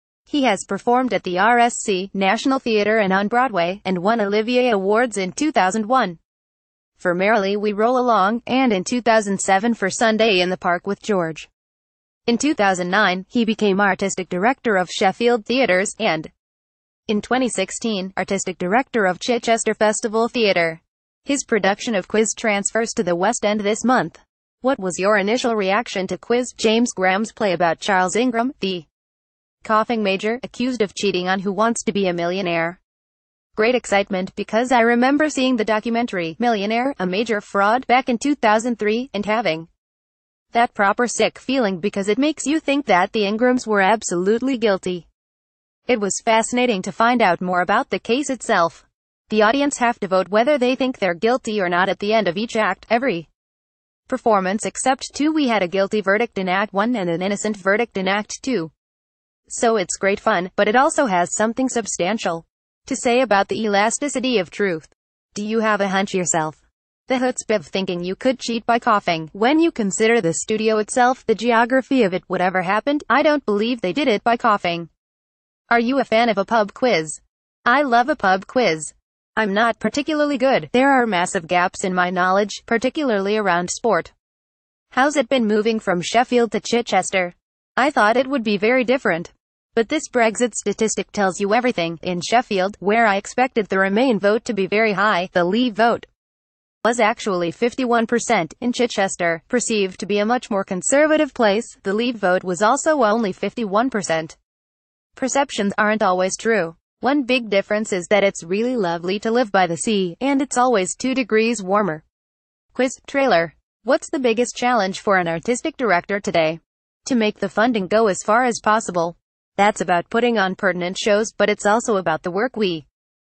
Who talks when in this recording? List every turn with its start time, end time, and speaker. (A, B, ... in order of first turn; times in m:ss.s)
0:00.3-0:06.2 A
0:07.0-0:11.5 A
0:12.3-0:16.3 A
0:17.1-0:28.9 A
0:29.6-0:32.8 A
0:33.5-0:39.7 A
0:40.5-0:45.1 A
0:45.9-0:53.3 A
0:54.1-0:58.7 A
0:59.5-1:14.9 A
1:15.7-1:24.1 A
1:24.9-1:36.1 A
1:36.8-1:44.4 A
1:45.1-1:52.0 A
1:52.7-2:02.9 A